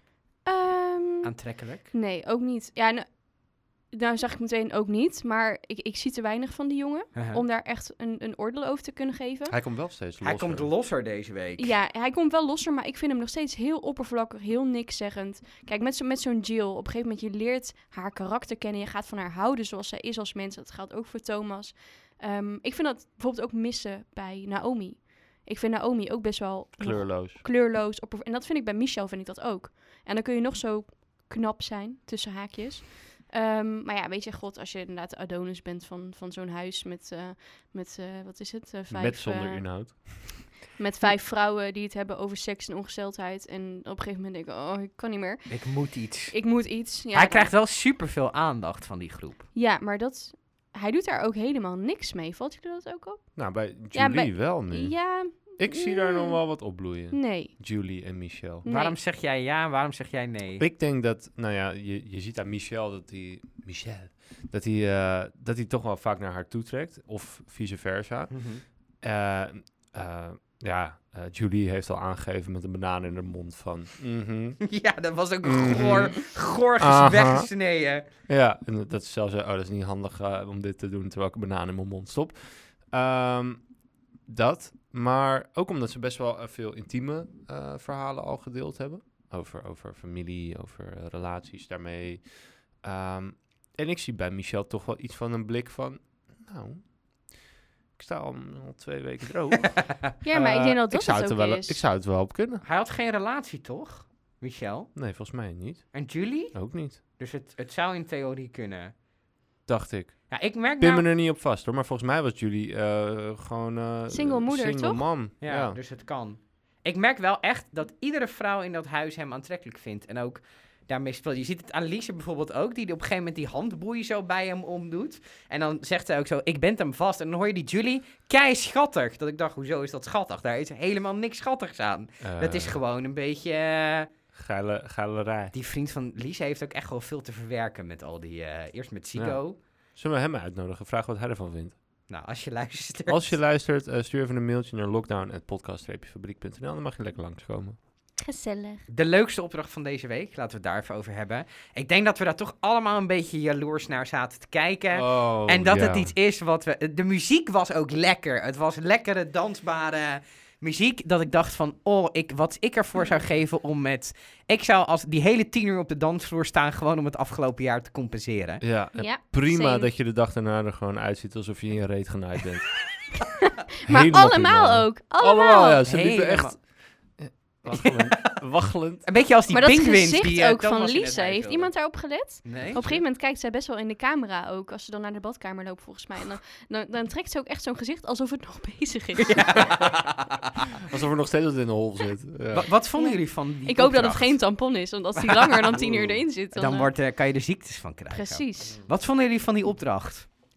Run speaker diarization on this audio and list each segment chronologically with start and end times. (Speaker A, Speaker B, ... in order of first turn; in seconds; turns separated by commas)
Speaker A: 0.4-9.5, Speaker B: 1.2-1.9, Speaker B: 7.1-7.4, Speaker C: 9.5-10.7, Speaker B: 10.2-11.7, Speaker A: 11.6-40.2, Speaker C: 26.8-27.4, Speaker C: 38.9-40.5, Speaker A: 40.8-47.5, Speaker B: 45.5-46.4, Speaker B: 47.1-49.4, Speaker A: 49.5-57.5, Speaker C: 53.4-58.6, Speaker A: 58.6-58.9, Speaker B: 58.6-60.6, Speaker C: 60.6-74.7, Speaker B: 68.3-68.6, Speaker B: 74.6-78.1, Speaker C: 75.4-77.5, Speaker C: 78.3-102.6, Speaker A: 100.2-101.8, Speaker B: 102.6-104.9, Speaker C: 104.9-107.0, Speaker B: 105.9-109.0, Speaker C: 109.7-115.8, Speaker B: 110.3-111.0, Speaker A: 114.1-115.0, Speaker B: 115.4-134.1, Speaker C: 132.2-132.8, Speaker C: 134.3-135.5, Speaker B: 135.5-139.6, Speaker C: 139.2-141.8, Speaker B: 142.1-143.4, Speaker C: 143.1-147.8, Speaker A: 148.2-148.8, Speaker B: 148.9-168.6, Speaker C: 154.9-156.1, Speaker C: 168.6-172.8, Speaker A: 168.9-169.9, Speaker A: 173.9-175.8, Speaker C: 173.9-179.2, Speaker B: 175.9-176.8, Speaker B: 177.7-178.1, Speaker B: 179.0-181.7, Speaker A: 179.5-189.8, Speaker B: 182.4-183.0, Speaker C: 182.7-183.0, Speaker B: 189.2-190.4, Speaker C: 190.9-192.7, Speaker B: 192.5-194.6, Speaker A: 192.9-196.9, Speaker B: 195.2-200.3, Speaker C: 195.8-196.2, Speaker A: 198.1-198.8